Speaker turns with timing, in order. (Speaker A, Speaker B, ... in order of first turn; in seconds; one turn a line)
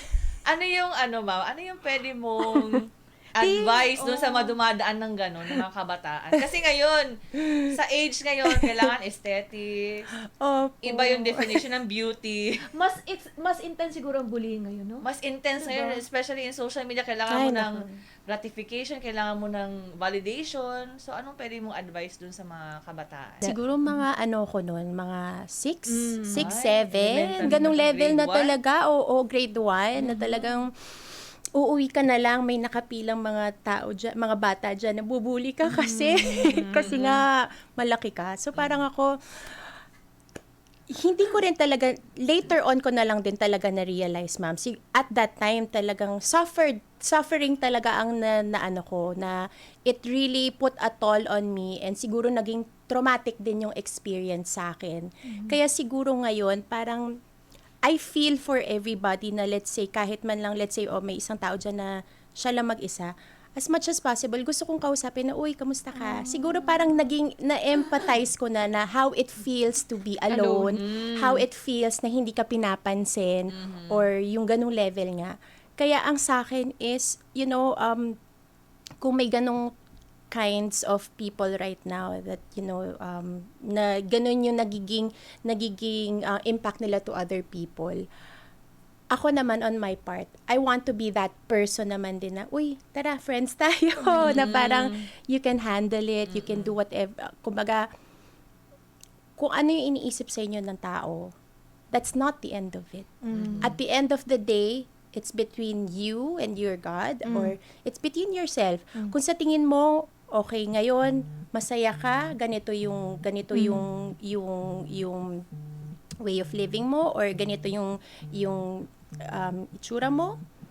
Speaker A: 0.5-2.9
Speaker A: 3.4-7.1
Speaker B: 3.4-4.5
Speaker A: 7.7-10.1
Speaker C: 8.5-8.9
Speaker C: 10.4-11.6
Speaker A: 10.8-12.4
Speaker B: 12.7-15.0
Speaker A: 15.0-23.5
Speaker B: 15.6-16.0
Speaker C: 17.3-18.0
Speaker B: 23.4-24.1
Speaker C: 23.4-30.7
Speaker B: 25.9-26.5
Speaker A: 26.3-28.6
Speaker B: 30.0-30.5
Speaker C: 31.6-37.3
Speaker B: 35.7-36.9
Speaker C: 37.8-39.1
Speaker A: 38.5-38.8
Speaker C: 41.0-49.4
Speaker C: 49.9-57.0
Speaker B: 55.3-55.6
Speaker C: 57.9-78.1
Speaker B: 70.3-70.8
Speaker A: 70.8-71.2
Speaker A: 73.5-74.0
Speaker C: 79.0-79.6
Speaker C: 80.3-88.0
Speaker C: 89.1-97.8
Speaker A: 94.2-95.0
Speaker A: 96.3-96.8
Speaker C: 99.4-101.3
Speaker C: 101.9-115.4
Speaker B: 103.2-103.8
Speaker A: 103.3-103.8
Speaker B: 107.3-107.5
Speaker B: 113.5-113.9
Speaker C: 116.2-120.3